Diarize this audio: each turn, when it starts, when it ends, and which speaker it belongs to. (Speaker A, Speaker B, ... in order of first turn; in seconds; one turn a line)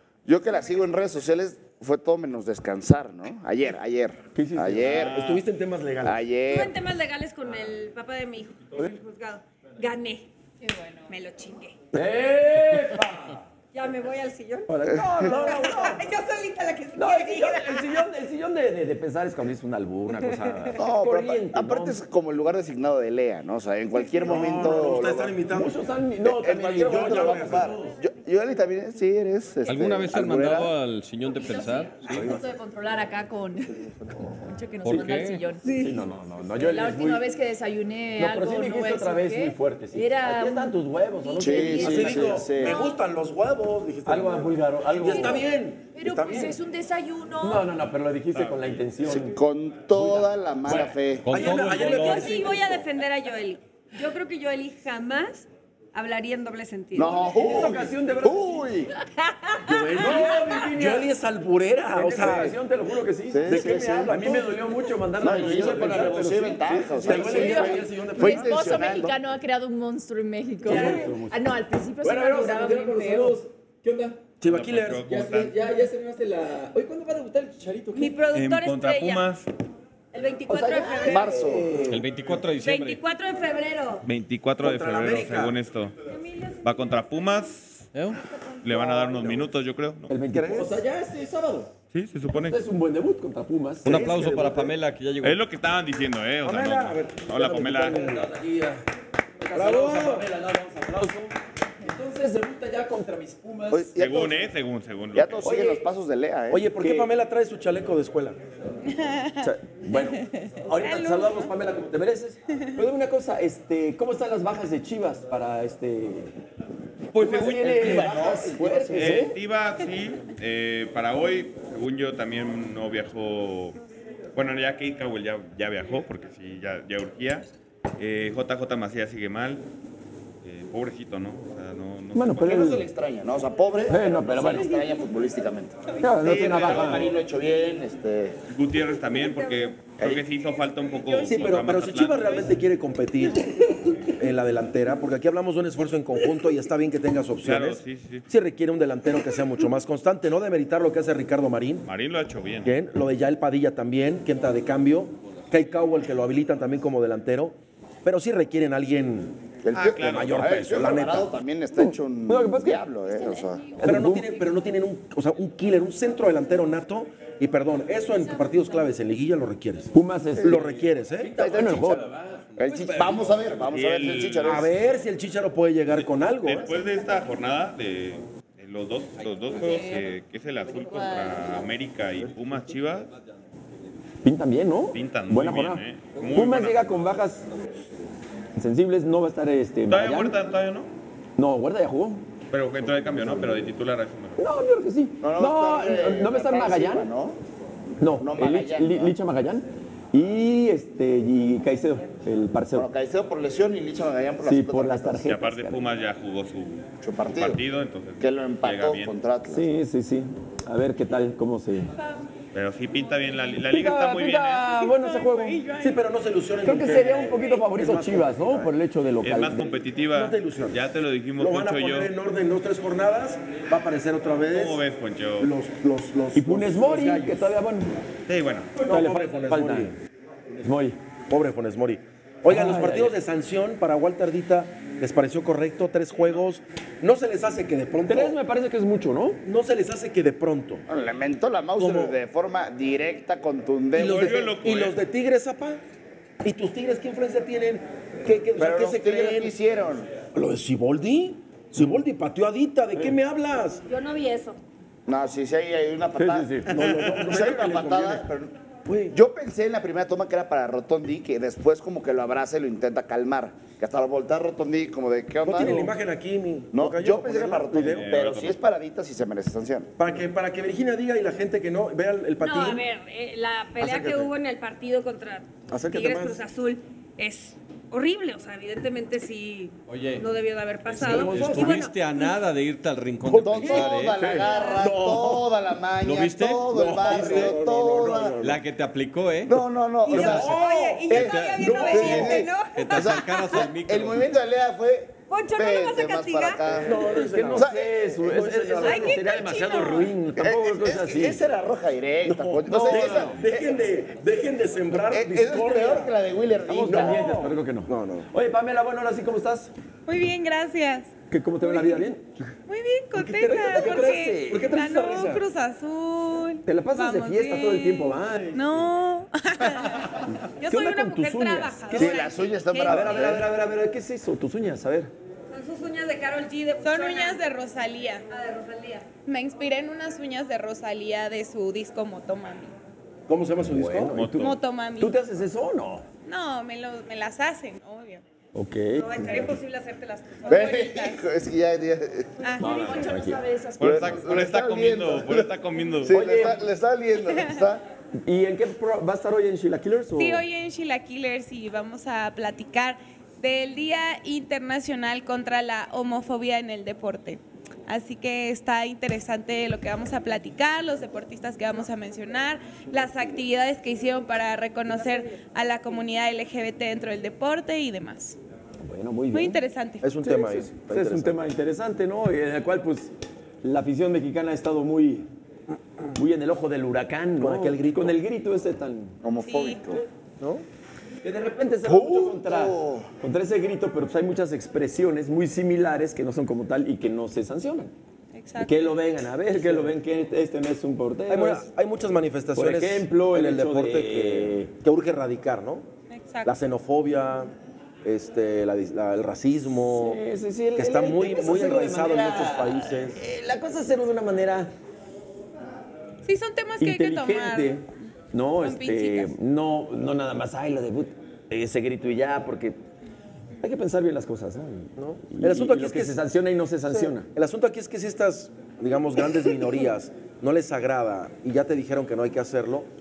Speaker A: 0.2-5.2
Speaker B: 4.3-5.0
Speaker C: 4.8-6.2
Speaker D: 4.9-5.4
Speaker A: 6.0-6.8
Speaker E: 6.5-10.3
Speaker F: 10.6-11.1
Speaker E: 11.1-11.8
Speaker B: 11.9-13.4
Speaker E: 13.7-18.1
Speaker B: 14.7-16.0
Speaker B: 16.9-22.0
Speaker E: 20.2-20.7
Speaker A: 20.8-25.4
Speaker C: 24.2-25.9
Speaker B: 25.5-27.8
Speaker A: 26.2-30.7
Speaker C: 26.8-27.9
Speaker G: 29.6-32.1
Speaker F: 31.3-36.0
Speaker C: 32.1-32.4
Speaker G: 34.8-35.4
Speaker B: 35.7-37.2
Speaker F: 36.6-42.9
Speaker B: 38.2-42.4
Speaker A: 41.4-42.8
Speaker C: 41.7-46.6
Speaker B: 44.0-45.5
Speaker F: 45.1-47.7
Speaker B: 47.4-49.4
Speaker D: 48.3-48.9
Speaker A: 49.0-51.4
Speaker C: 50.6-52.9
Speaker G: 51.2-52.5
Speaker E: 51.4-57.4
Speaker A: 56.9-58.9
Speaker B: 57.3-58.9
Speaker E: 59.2-60.4
Speaker C: 59.6-62.6
Speaker B: 60.0-61.1
Speaker B: 61.9-66.2
Speaker A: 63.3-64.2
Speaker C: 63.4-69.0
Speaker A: 65.2-69.2
Speaker B: 67.1-67.4
Speaker F: 67.1-73.4
Speaker B: 70.6-71.5
Speaker C: 70.7-71.1
Speaker B: 72.0-74.2
Speaker C: 74.4-75.1
Speaker D: 74.5-75.5
Speaker B: 75.0-78.1
Speaker E: 77.9-79.3
Speaker D: 78.3-79.5
Speaker E: 80.1-81.4
Speaker B: 80.5-82.1
Speaker A: 81.0-81.7
Speaker G: 81.9-83.0
Speaker E: 82.6-84.0
Speaker D: 84.0-85.9
Speaker C: 84.6-85.6
Speaker E: 86.0-87.2
Speaker D: 86.6-87.9
Speaker G: 87.9-88.2
Speaker E: 88.1-89.3
Speaker D: 88.6-90.2
Speaker A: 88.7-89.4
Speaker B: 90.1-91.7
Speaker C: 90.3-90.8
Speaker D: 91.9-92.6
Speaker B: 92.3-94.1
Speaker G: 93.8-95.4
Speaker C: 93.9-94.7
Speaker A: 93.9-94.5
Speaker D: 95.2-98.1
Speaker C: 96.4-98.3
Speaker B: 97.8-98.8
Speaker B: 99.4-103.9
Speaker C: 99.5-100.3
Speaker A: 103.7-104.5
Speaker D: 103.9-105.4
Speaker A: 105.1-106.7
Speaker B: 105.4-105.9
Speaker C: 106.5-108.4
Speaker B: 106.7-107.1
Speaker H: 108.8-109.5
Speaker B: 109.4-116.4
Speaker H: 110.7-111.5
Speaker B: 117.1-119.4
Speaker D: 117.2-118.3
Speaker A: 117.2-119.3
Speaker D: 118.9-123.8
Speaker D: 124.3-129.6
Speaker D: 130.4-132.4
Speaker B: 132.1-132.9
Speaker A: 132.3-138.4
Speaker B: 133.9-134.8
Speaker B: 136.0-137.1
Speaker D: 136.6-137.0
Speaker D: 138.5-142.6
Speaker C: 141.2-151.9
Speaker D: 147.4-148.2
Speaker D: 151.9-152.7
Speaker C: 152.6-159.4
Speaker A: 159.6-163.6
Speaker D: 159.7-160.7
Speaker C: 159.9-161.3
Speaker B: 160.5-161.2
Speaker B: 161.8-162.9
Speaker F: 163.1-164.2
Speaker B: 163.8-164.3
Speaker C: 163.8-172.1
Speaker F: 168.1-168.9
Speaker B: 169.9-173.4
Speaker A: 170.4-170.7
Speaker A: 171.4-172.0
Speaker A: 172.6-174.7
Speaker D: 173.6-174.7
Speaker C: 174.4-176.8
Speaker D: 175.9-183.1
Speaker H: 179.5-180.0
Speaker H: 180.8-181.6
Speaker B: 184.2-187.4
Speaker D: 184.9-187.1
Speaker B: 188.6-190.4
Speaker D: 189.9-190.9
Speaker B: 191.4-192.2
Speaker D: 192.5-194.4
Speaker B: 194.4-197.1
Speaker A: 195.2-197.4
Speaker B: 198.0-202.9
Speaker A: 198.0-199.1
Speaker A: 202.7-205.3
Speaker B: 204.4-205.9
Speaker D: 205.3-209.1
Speaker A: 207.0-207.6
Speaker A: 208.2-209.7
Speaker B: 209.5-211.9
Speaker D: 212.5-214.7
Speaker B: 213.6-215.6
Speaker H: 214.8-216.0
Speaker C: 215.8-218.7
Speaker B: 216.6-219.7
Speaker D: 219.2-222.1
Speaker C: 220.1-220.8
Speaker C: 221.4-224.9
Speaker D: 224.5-225.5
Speaker C: 225.4-227.5
Speaker B: 226.3-227.9
Speaker D: 228.3-228.8
Speaker C: 228.9-229.9
Speaker B: 228.9-229.9
Speaker B: 230.5-231.0
Speaker C: 231.3-238.4
Speaker B: 232.5-233.2
Speaker B: 238.1-239.4
Speaker C: 239.4-240.8
Speaker A: 240.9-244.5
Speaker C: 241.8-242.1
Speaker C: 243.9-245.8
Speaker D: 244.1-244.9
Speaker C: 246.4-249.5
Speaker A: 248.6-250.1
Speaker C: 250.3-253.8
Speaker E: 253.9-254.6
Speaker A: 255.1-258.5
Speaker B: 256.1-257.0
Speaker C: 256.7-258.2
Speaker D: 256.8-257.1
Speaker C: 258.9-259.1
Speaker A: 259.1-265.9
Speaker C: 265.4-268.1
Speaker B: 265.6-265.9
Speaker A: 266.7-269.9
Speaker D: 267.9-268.6
Speaker C: 270.0-272.9
Speaker E: 272.4-282.4
Speaker C: 273.8-274.2
Speaker C: 275.7-276.4
Speaker G: 279.9-280.2
Speaker C: 281.0-281.7
Speaker B: 281.0-281.9
Speaker G: 281.1-284.2
Speaker C: 283.2-285.5
Speaker A: 283.4-288.4
Speaker E: 283.7-285.0
Speaker B: 284.2-284.4
Speaker G: 286.0-287.1
Speaker C: 286.7-288.6
Speaker G: 288.4-289.6
Speaker A: 289.4-297.0
Speaker E: 290.1-293.7
Speaker C: 290.1-292.4
Speaker G: 291.1-294.3
Speaker E: 295.3-296.8
Speaker C: 296.8-299.2
Speaker B: 296.9-301.4
Speaker A: 297.5-298.2
Speaker E: 298.8-300.1
Speaker A: 300.4-303.5
Speaker C: 302.2-306.1
Speaker B: 302.7-303.4
Speaker A: 304.9-307.3
Speaker B: 306.7-309.7
Speaker C: 306.8-308.3
Speaker H: 310.1-311.1
Speaker B: 311.3-312.3
Speaker H: 311.6-312.1
Speaker H: 312.7-320.3
Speaker B: 313.1-314.7
Speaker C: 313.6-315.4
Speaker B: 316.6-318.9
Speaker E: 320.6-323.3
Speaker B: 320.6-322.1
Speaker A: 321.9-323.5
Speaker B: 322.9-325.1
Speaker E: 325.5-327.5
Speaker H: 326.8-328.2
Speaker E: 328.3-329.1
Speaker H: 329.2-332.8
Speaker C: 333.3-334.3
Speaker B: 333.6-336.1
Speaker D: 334.1-334.6
Speaker H: 334.4-335.2
Speaker H: 336.2-338.2
Speaker B: 338.5-339.6
Speaker E: 338.9-341.1
Speaker A: 340.4-342.3
Speaker H: 340.5-341.1
Speaker H: 342.4-342.7
Speaker F: 342.6-344.4
Speaker B: 342.6-343.4
Speaker D: 343.8-346.2
Speaker A: 343.8-345.5
Speaker A: 346.0-347.8
Speaker B: 346.1-346.6
Speaker H: 347.3-347.6
Speaker B: 348.2-350.4
Speaker H: 350.1-368.4
Speaker B: 368.8-369.6
Speaker H: 369.3-370.1
Speaker C: 370.0-371.4
Speaker B: 370.2-375.3
Speaker B: 376.1-379.2
Speaker C: 377.4-378.2
Speaker A: 379.2-380.0
Speaker H: 379.4-379.9
Speaker C: 380.4-380.6
Speaker B: 381.2-387.9
Speaker A: 381.8-383.1
Speaker H: 388.3-388.9
Speaker B: 388.6-391.7
Speaker C: 389.5-389.9
Speaker C: 391.3-395.9
Speaker B: 392.5-394.7
Speaker H: 396.1-396.6
Speaker C: 396.4-397.5
Speaker C: 398.0-400.2
Speaker B: 399.9-404.7
Speaker C: 400.8-403.2
Speaker H: 406.2-407.8
Speaker B: 406.8-412.8
Speaker H: 408.6-409.4
Speaker B: 413.6-417.3
Speaker C: 415.0-416.2
Speaker C: 416.9-422.9